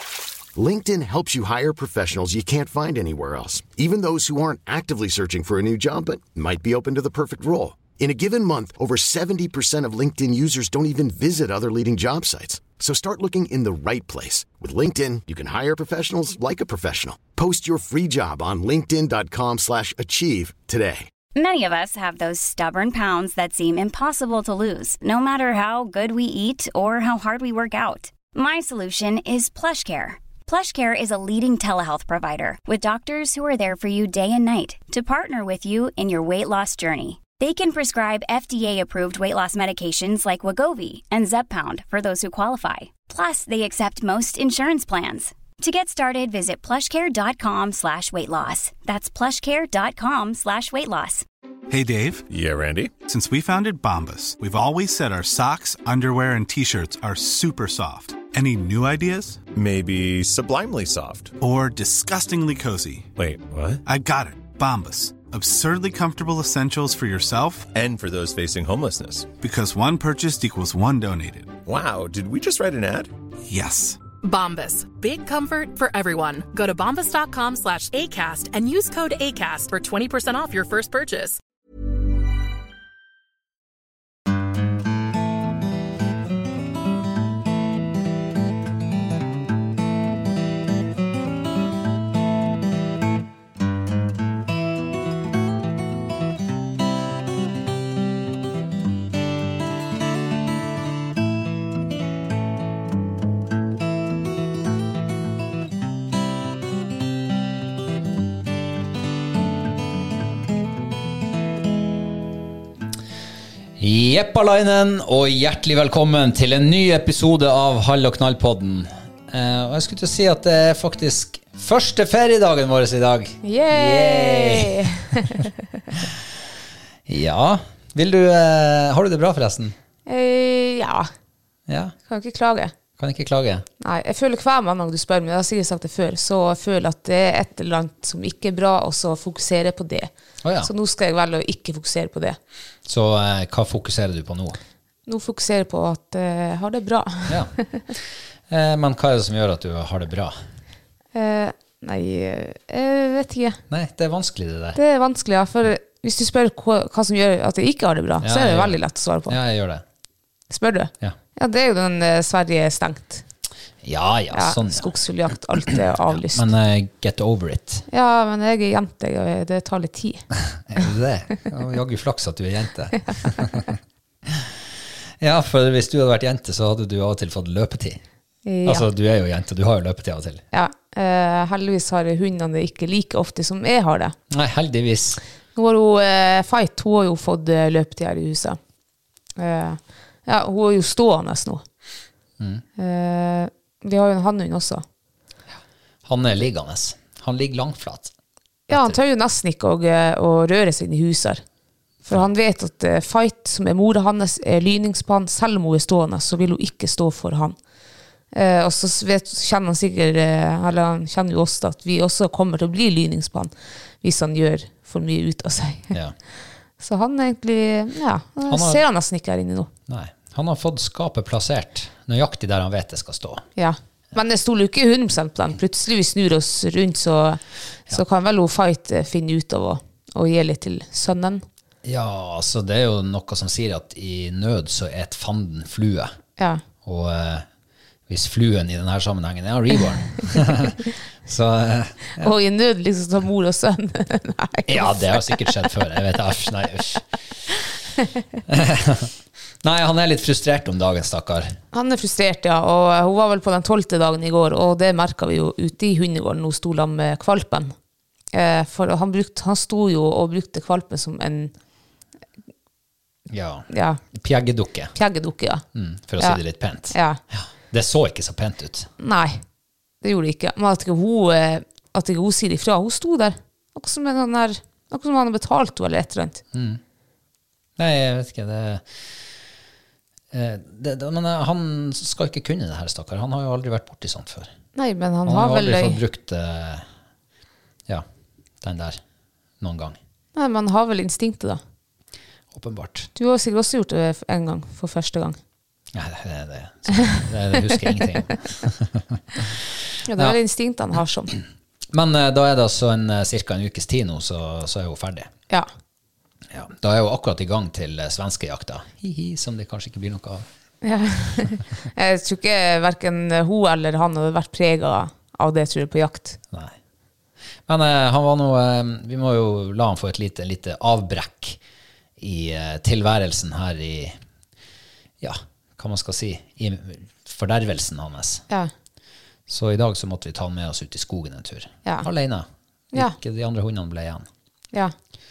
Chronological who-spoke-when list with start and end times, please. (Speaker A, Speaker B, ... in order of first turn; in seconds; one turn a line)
Speaker A: 0.5-21.1
Speaker B: 21.3-51.2
Speaker C: 51.7-52.2
Speaker D: 52.3-52.9
Speaker C: 53.0-59.4
Speaker D: 59.5-61.3
Speaker C: 61.4-63.1
Speaker D: 63.2-63.8
Speaker C: 63.9-67.7
Speaker D: 67.7-69.3
Speaker C: 69.4-71.6
Speaker D: 71.7-73.1
Speaker C: 73.5-74.0
Speaker E: 74.2-81.4
Speaker F: 113.8-126.1
Speaker G: 123.4-125.5
Speaker F: 127.1-129.7
Speaker G: 130.1-131.1
Speaker F: 131.7-131.9
Speaker G: 132.1-132.7
Speaker F: 133.0-133.7
Speaker G: 133.8-140.1
Speaker F: 140.4-140.7
Speaker G: 140.6-142.4
Speaker F: 142.8-144.6
Speaker G: 145.1-147.8
Speaker F: 148.5-150.4
Speaker G: 151.1-153.6
Speaker F: 153.7-154.8
Speaker G: 154.8-159.3
Speaker F: 158.2-159.8
Speaker G: 160.5-163.2
Speaker F: 163.8-164.9
Speaker G: 164.3-166.4
Speaker F: 166.1-167.8
Speaker G: 167.9-170.2
Speaker F: 170.5-174.6
Speaker F: 175.2-178.0
Speaker G: 178.4-178.9
Speaker F: 178.6-180.4
Speaker G: 180.5-184.2
Speaker F: 184.3-185.2
Speaker G: 185.5-188.6
Speaker G: 189.4-191.6
Speaker G: 192.8-194.8
Speaker F: 196.0-198.1
Speaker G: 198.7-201.4
Speaker F: 198.7-199.0
Speaker G: 202.1-207.6
Speaker G: 208.3-213.5
Speaker G: 214.0-215.9
Speaker G: 216.8-219.7
Speaker F: 218.5-218.8
Speaker F: 219.9-223.4
Speaker G: 223.6-231.4
Speaker F: 231.8-236.1
Speaker F: 236.8-237.4
Speaker F: 238.1-242.3
Speaker G: 242.2-245.6
Speaker F: 244.7-247.0
Speaker F: 248.5-249.1
Speaker F: 249.6-251.5
Speaker G: 251.7-257.7
Speaker G: 258.3-261.5
Speaker F: 263.3-264.9
Speaker G: 263.7-264.0
Speaker G: 264.9-265.6
Speaker F: 265.7-268.9
Speaker G: 266.2-267.2
Speaker G: 269.0-269.4
Speaker G: 270.0-276.4
Speaker F: 276.5-276.8
Speaker F: 277.8-278.9
Speaker F: 280.3-284.5
Speaker G: 284.7-286.0
Speaker F: 285.2-286.9
Speaker F: 288.6-289.0
Speaker F: 289.6-290.0
Speaker G: 290.3-291.6
Speaker F: 292.5-293.1
Speaker G: 293.1-295.4
Speaker F: 295.9-300.4
Speaker G: 300.0-301.4
Speaker F: 301.9-305.3
Speaker F: 306.5-310.4
Speaker G: 310.8-316.4
Speaker F: 317.7-321.6
Speaker F: 322.2-324.2
Speaker F: 325.2-328.4
Speaker F: 329.5-334.3